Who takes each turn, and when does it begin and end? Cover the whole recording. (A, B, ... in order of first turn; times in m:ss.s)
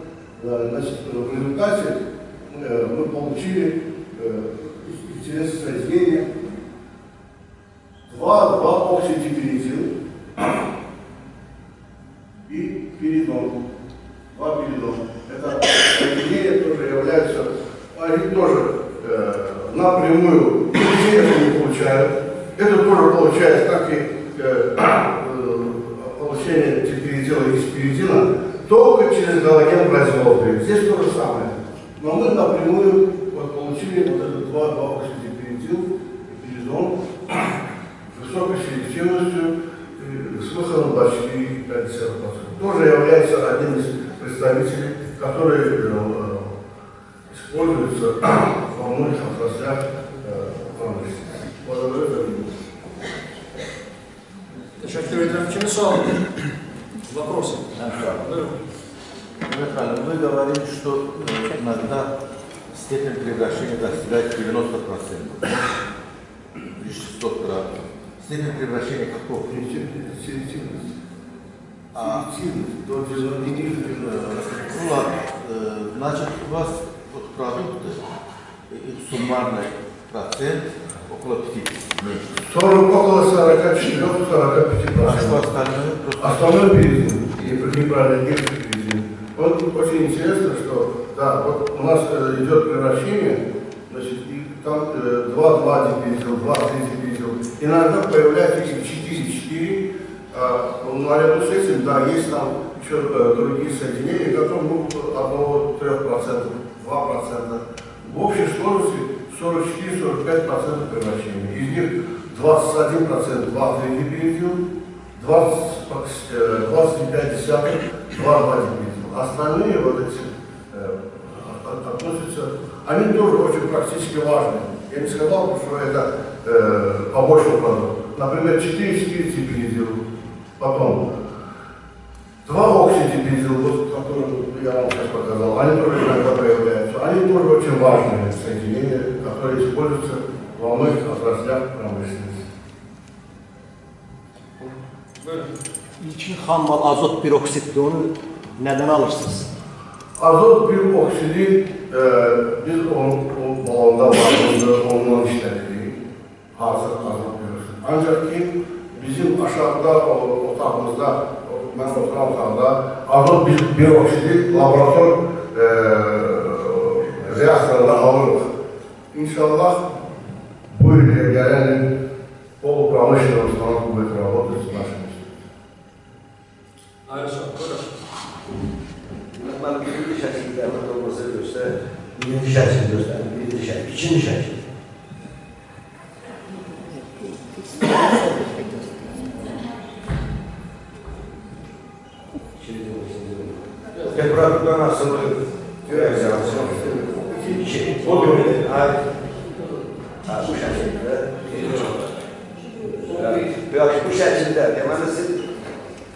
0:00.4-0:06.3 A
0:08.1-0:09.9 A
0:12.5-0:13.7 A
0:14.3-0:37.4 A
0:38.1-0:46.6 A
0:47.3-0:52.6 A
0:54.8-0:56.2 B
0:57.0-0:58.6 B
0:59.5-1:02.1 C
1:02.8-1:05.7 C
1:06.8-1:07.6 C
1:08.2-1:09.5 C
1:09.4-1:10.9 A
1:11.9-1:12.2 C
1:12.0-1:14.5 A
1:14.0-1:18.0 C
1:18.7-1:22.2 C
1:22.4-1:25.4 A
1:25.0-1:26.5 C
1:26.2-1:54.6 A
1:55.2-2:10.0 A
2:10.6-2:11.2 A
2:12.4-2:22.4 A
2:24.6-2:25.5 B
2:26.0-2:29.5 D
2:30.2-2:36.0 A
2:36.6-2:48.5 A
2:49.1-2:49.8 A
2:50.7-2:51.9 A
2:52.6-2:55.2 A
2:57.0-2:57.9 B
2:59.3-3:04.6 E
3:12.6-3:13.6 E
3:14.0-3:14.2 B
3:14.1-3:16.9 E
3:15.9-3:18.6 A
3:17.4-3:19.0 E
3:20.2-3:22.1 E
3:23.0-3:25.5 E